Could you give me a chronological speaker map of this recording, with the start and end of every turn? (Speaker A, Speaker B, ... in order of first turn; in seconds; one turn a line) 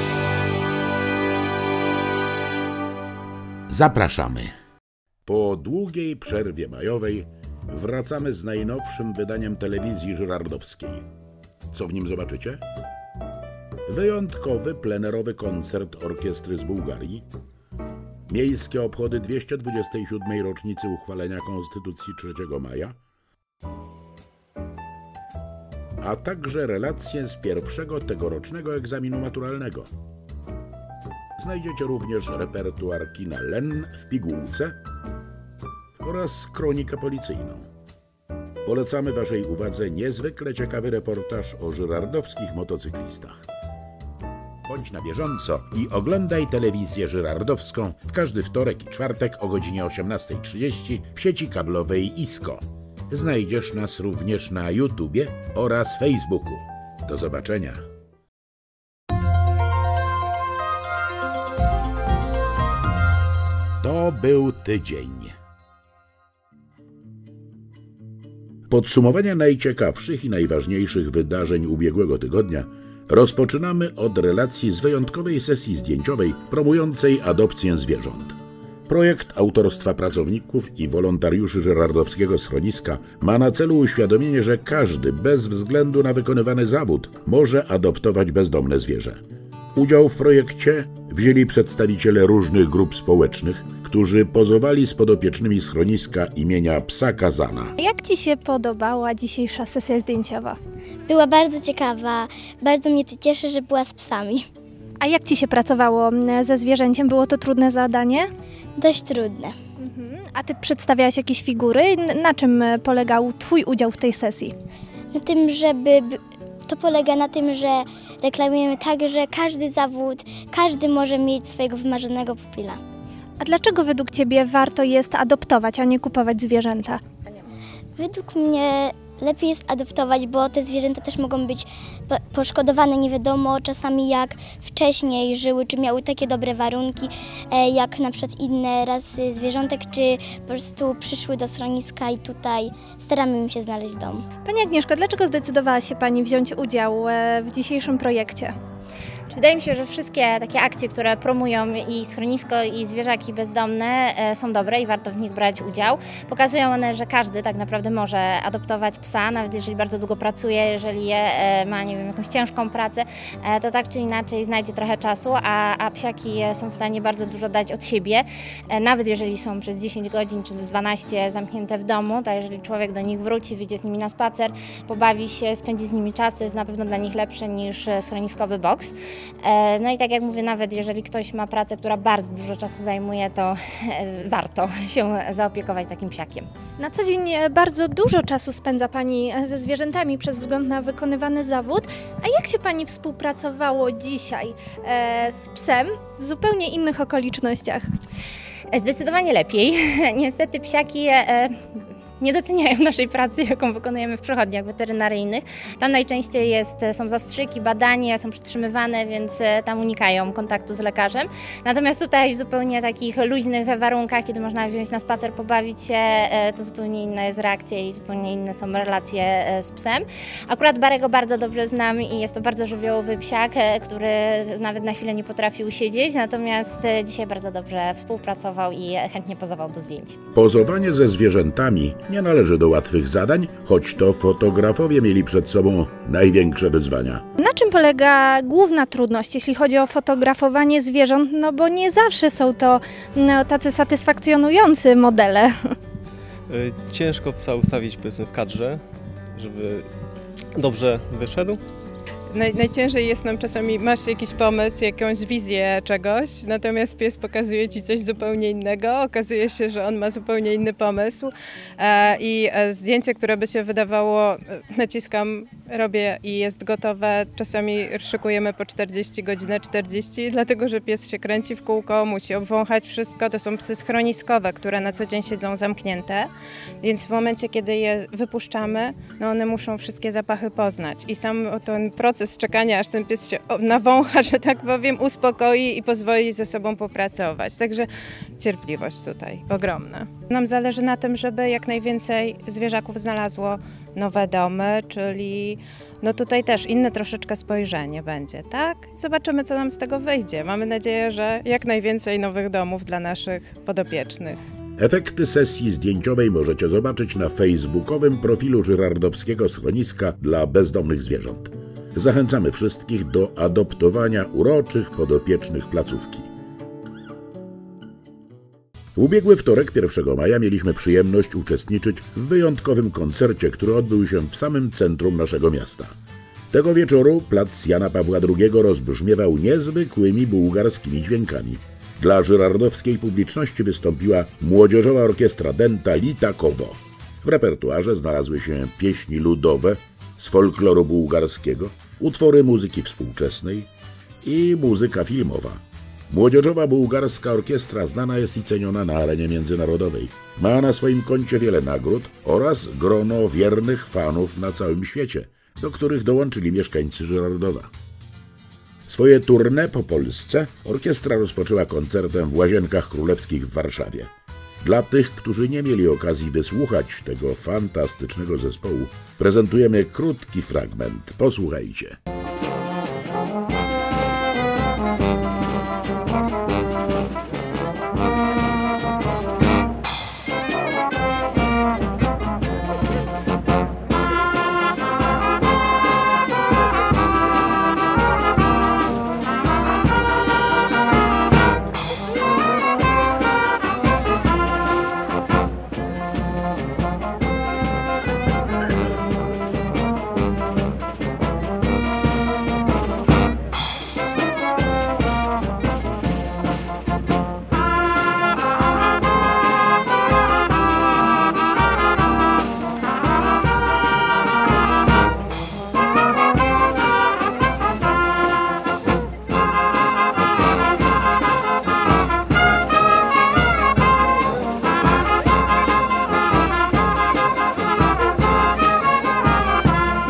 Speaker A: 3.7-4.5
Speaker A: 5.3-11.1
Speaker A: 11.7-12.6
Speaker A: 13.9-17.2
Speaker A: 18.3-23.0
Speaker A: 26.0-29.9
Speaker A: 31.4-34.8
Speaker A: 36.0-37.7
Speaker A: 38.6-43.5
Speaker A: 44.6-57.9
Speaker A: 63.8-65.3
Speaker A: 68.7-89.2
Speaker A: 89.7-97.8
Speaker B: 97.8-100.6
Speaker C: 101.1-104.5
Speaker B: 105.0-108.3
Speaker C: 108.8-109.6
Speaker B: 109.8-114.5
Speaker C: 115.1-122.8
Speaker B: 123.4-127.0
Speaker C: 128.0-144.3
Speaker B: 144.4-148.5
Speaker D: 149.3-186.5
Speaker B: 186.8-197.9
Speaker D: 198.7-201.7
Speaker D: 202.2-230.2
Speaker A: 230.3-237.2
Speaker B: 237.4-245.7
Speaker E: 246.5-248.8
Speaker E: 249.3-249.9
Speaker E: 250.6-251.6
Speaker F: 252.3-304.4
Speaker A: 304.8-316.3
Speaker A: 319.0-326.0
Speaker A: 326.5-343.7
Speaker A: 344.2-357.7
Speaker A: 358.9-372.0